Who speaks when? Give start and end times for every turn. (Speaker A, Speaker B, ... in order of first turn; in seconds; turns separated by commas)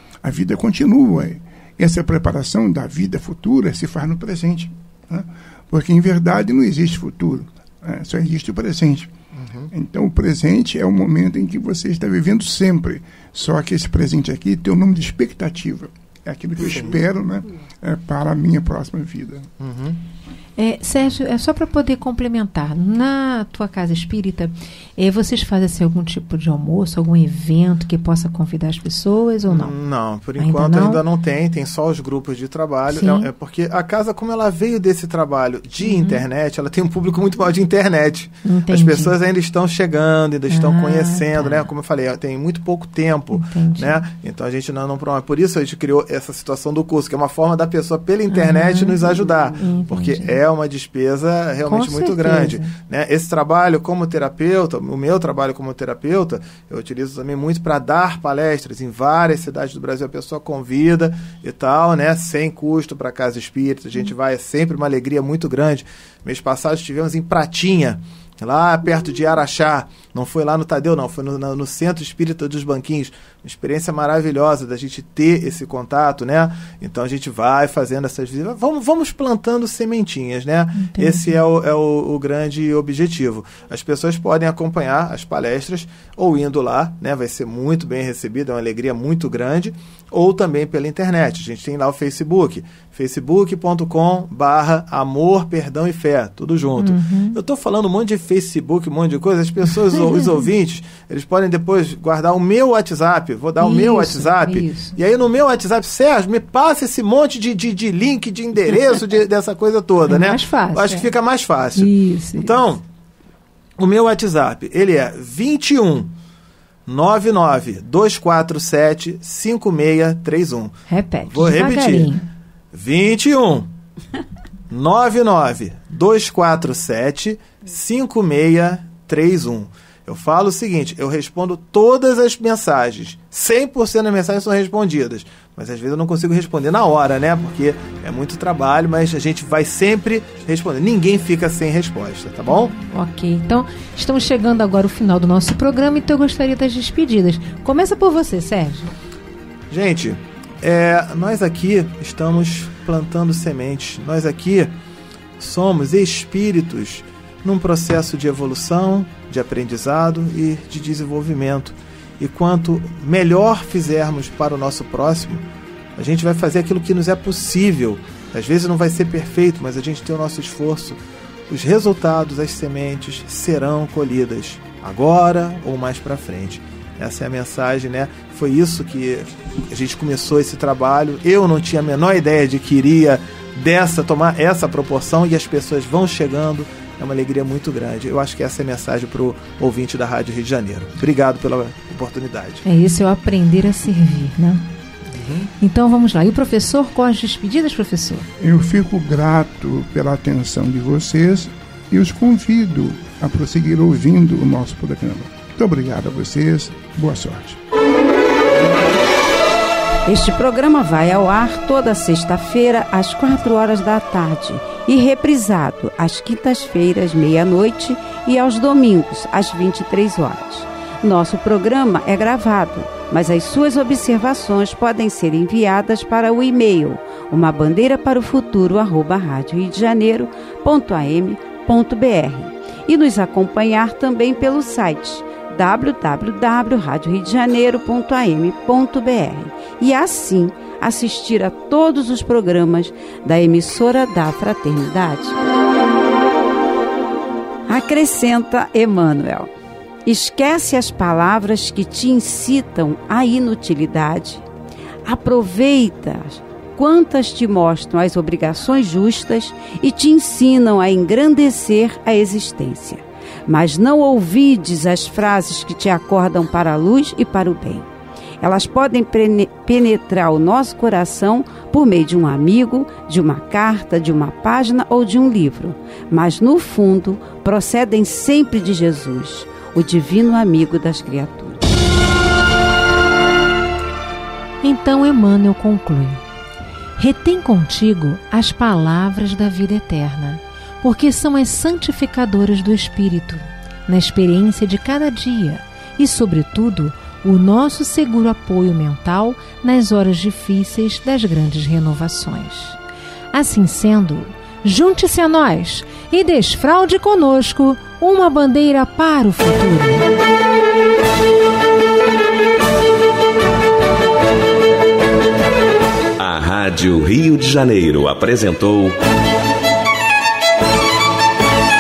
Speaker A: 0.2-9.1, Speaker B: 9.3-9.7, Speaker A: 9.7-19.5, Speaker B: 16.6-17.0, Speaker B: 19.6-20.0, Speaker C: 20.6-29.7, Speaker B: 29.5-112.8, Speaker C: 30.4-31.0, Speaker C: 32.9-33.3, Speaker C: 35.8-36.2, Speaker C: 38.4-39.1, Speaker C: 40.5-41.7, Speaker C: 43.3-44.0, Speaker C: 48.3-50.4, Speaker C: 51.6-52.7, Speaker C: 80.8-81.3, Speaker C: 96.8-97.4, Speaker C: 103.6-105.0, Speaker C: 110.1-111.1, Speaker C: 111.8-112.6, Speaker B: 113.8-116.1, Speaker B: 116.9-120.8, Speaker C: 120.9-122.3, Speaker B: 121.3-122.1, Speaker B: 122.7-123.7, Speaker B: 124.7-142.7, Speaker C: 142.5-148.9, Speaker B: 149.7-154.7, Speaker B: 155.4-165.4, Speaker B: 166.0-192.7, Speaker C: 192.7-194.7, Speaker B: 195.2-195.5, Speaker C: 195.6-198.3, Speaker A: 198.4-207.6, Speaker D: 210.1-245.4, Speaker D: 247.7-249.5, Speaker D: 250.1-254.5, Speaker D: 255.1-267.9, Speaker D: 268.4-281.6, Speaker C: 284.6-286.2, Speaker C: 287.0-302.8, Speaker C: 303.3-310.1, Speaker E: 316.2-319.0